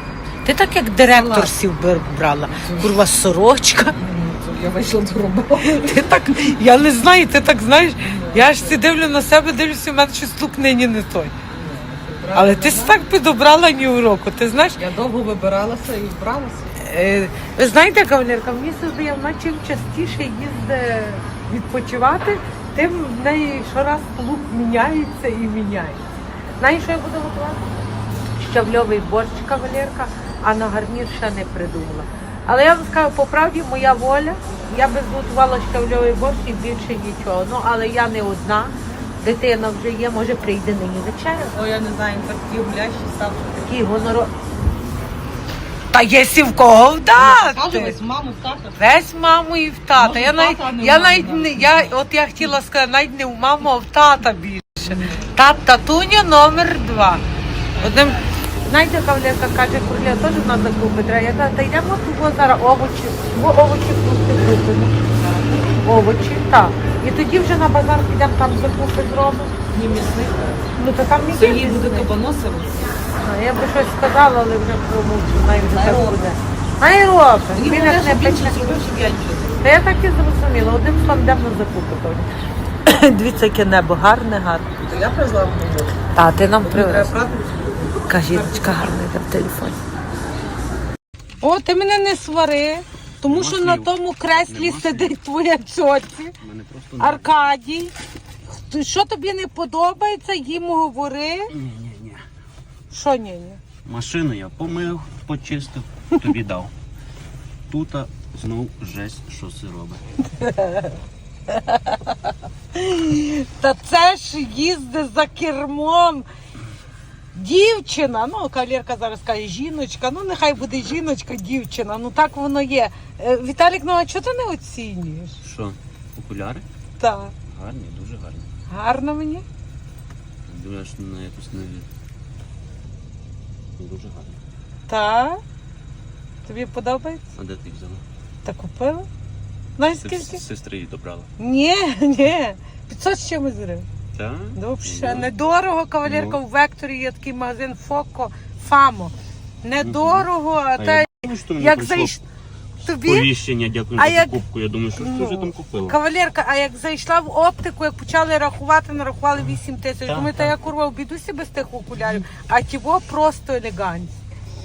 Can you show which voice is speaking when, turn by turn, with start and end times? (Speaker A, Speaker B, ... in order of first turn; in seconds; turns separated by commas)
Speaker A: 0.4-4.0, Speaker B: 1.1-1.5, Speaker B: 2.6-3.0, Speaker B: 4.0-6.0, Speaker A: 5.6-11.3, Speaker B: 8.0-8.8, Speaker B: 11.5-13.0, Speaker A: 12.3-14.8, Speaker B: 14.8-16.7, Speaker A: 16.8-26.0, Speaker A: 26.6-27.7, Speaker A: 28.4-41.6, Speaker B: 41.5-43.6, Speaker A: 43.6-44.3, Speaker A: 45.9-48.0, Speaker B: 47.2-48.8, Speaker A: 48.8-57.2, Speaker B: 49.9-52.5, Speaker B: 54.9-55.3, Speaker B: 57.8-58.1, Speaker A: 57.8-69.5, Speaker B: 69.7-70.5, Speaker A: 70.8-72.1, Speaker B: 71.3-72.8, Speaker A: 73.2-78.8, Speaker B: 75.7-76.3, Speaker B: 77.5-79.6, Speaker A: 79.6-82.3, Speaker A: 82.8-84.7, Speaker B: 84.8-88.8, Speaker A: 86.1-87.2, Speaker A: 88.0-89.8, Speaker A: 91.4-96.4, Speaker C: 93.3-95.2, Speaker C: 96.4-97.5, Speaker A: 97.0-97.9, Speaker A: 98.5-101.5, Speaker C: 101.5-102.2, Speaker A: 102.9-103.6, Speaker C: 103.8-106.7, Speaker C: 107.7-110.0, Speaker A: 110.3-110.9, Speaker A: 111.5-112.1, Speaker A: 112.7-116.2, Speaker A: 117.3-125.4, Speaker C: 125.4-126.6, Speaker A: 127.0-127.3, Speaker C: 127.5-128.5, Speaker A: 128.7-129.4, Speaker C: 130.4-131.9, Speaker C: 133.8-134.4, Speaker A: 134.9-135.4, Speaker A: 136.4-137.2, Speaker C: 137.3-138.0, Speaker A: 138.4-139.1, Speaker A: 139.8-140.4, Speaker C: 140.0-141.3, Speaker A: 141.4-143.8, Speaker C: 144.1-145.3, Speaker A: 144.6-152.2, Speaker C: 146.0-146.4, Speaker C: 149.8-152.1, Speaker A: 152.8-153.3, Speaker C: 152.8-156.0, Speaker A: 153.9-154.4, Speaker A: 155.0-164.2, Speaker C: 160.1-160.5